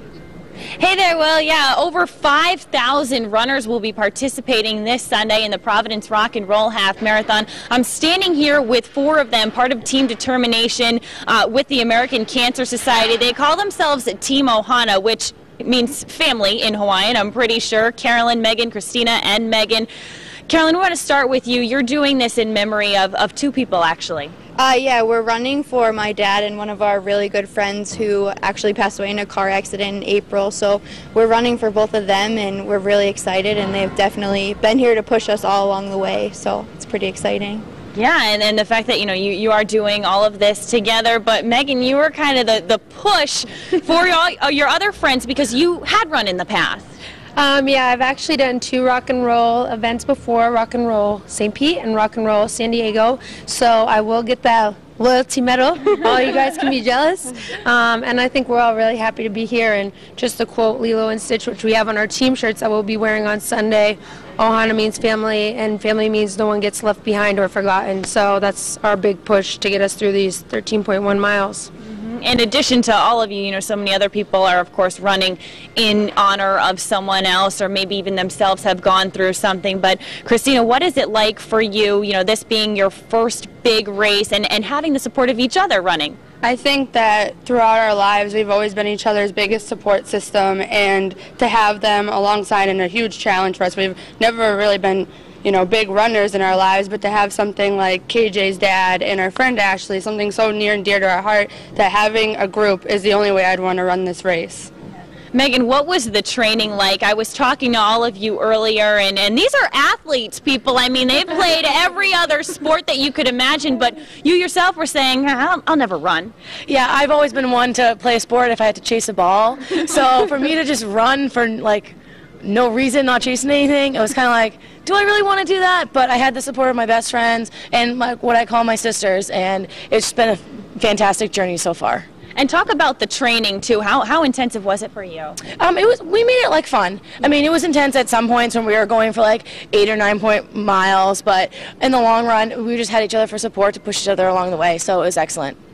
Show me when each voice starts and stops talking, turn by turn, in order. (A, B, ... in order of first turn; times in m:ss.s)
0:00.8-0:19.9 A
0:20.5-0:24.3 A
0:24.6-0:37.6 B
0:37.9-0:46.9 A
0:47.4-1:11.7 C
1:11.9-1:26.2 A
1:26.4-1:44.7 D
1:45.3-1:56.3 A
1:56.7-2:01.9 E
2:02.5-2:12.0 E
2:12.4-2:15.3 A
2:15.6-2:25.5 E